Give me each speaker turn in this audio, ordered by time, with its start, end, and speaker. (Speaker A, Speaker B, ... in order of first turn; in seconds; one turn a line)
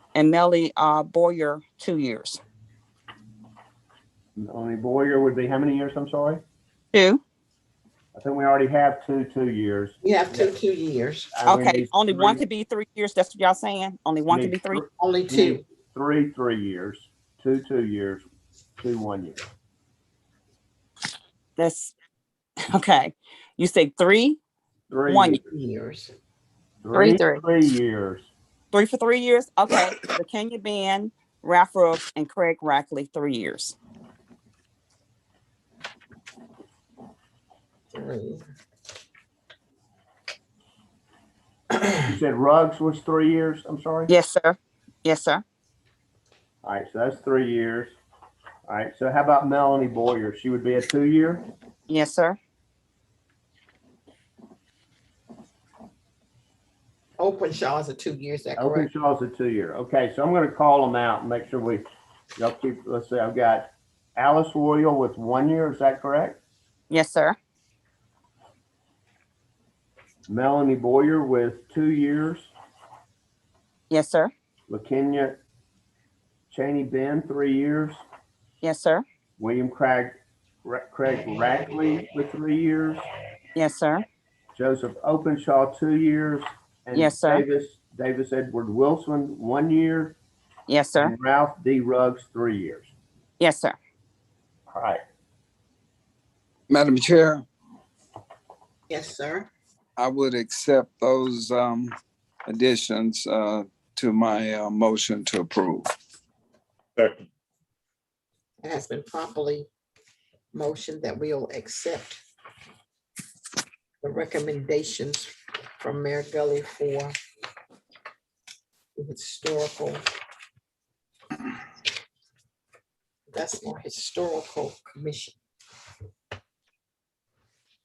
Speaker A: 0.1-2.4
Speaker B: 4.4-6.4
Speaker A: 6.9-7.2
Speaker B: 8.1-10.6
Speaker C: 10.0-11.3
Speaker B: 11.3-12.4
Speaker A: 11.4-14.8
Speaker B: 14.3-18.2
Speaker C: 15.0-15.6
Speaker B: 18.8-19.4
Speaker A: 21.6-21.9
Speaker A: 22.7-24.4
Speaker B: 24.9-25.4
Speaker A: 25.1-25.4
Speaker C: 25.4-26.1
Speaker B: 26.8-28.3
Speaker A: 26.9-27.4
Speaker A: 28.7-33.7
Speaker C: 37.9-38.4
Speaker B: 41.9-44.1
Speaker A: 44.1-45.4
Speaker B: 46.6-47.9
Speaker B: 48.7-51.5
Speaker A: 51.9-52.4
Speaker C: 57.2-58.9
Speaker B: 58.5-61.8
Speaker B: 62.4-66.4
Speaker A: 66.9-67.4
Speaker B: 70.3-72.5
Speaker A: 73.9-74.3
Speaker B: 74.7-75.4
Speaker B: 76.5-78.0
Speaker A: 78.6-79.0
Speaker B: 79.4-83.0
Speaker A: 83.5-84.0
Speaker B: 84.5-90.2
Speaker A: 86.9-87.4
Speaker A: 90.7-91.1
Speaker B: 91.0-92.9
Speaker A: 93.4-93.8
Speaker B: 94.7-95.0
Speaker D: 96.7-97.5
Speaker C: 98.9-99.5
Speaker D: 100.0-105.9
Speaker C: 108.6-109.7
Speaker C: 110.5-112.2
Speaker C: 114.0-117.1
Speaker C: 119.0-120.0
Speaker C: 123.3-125.3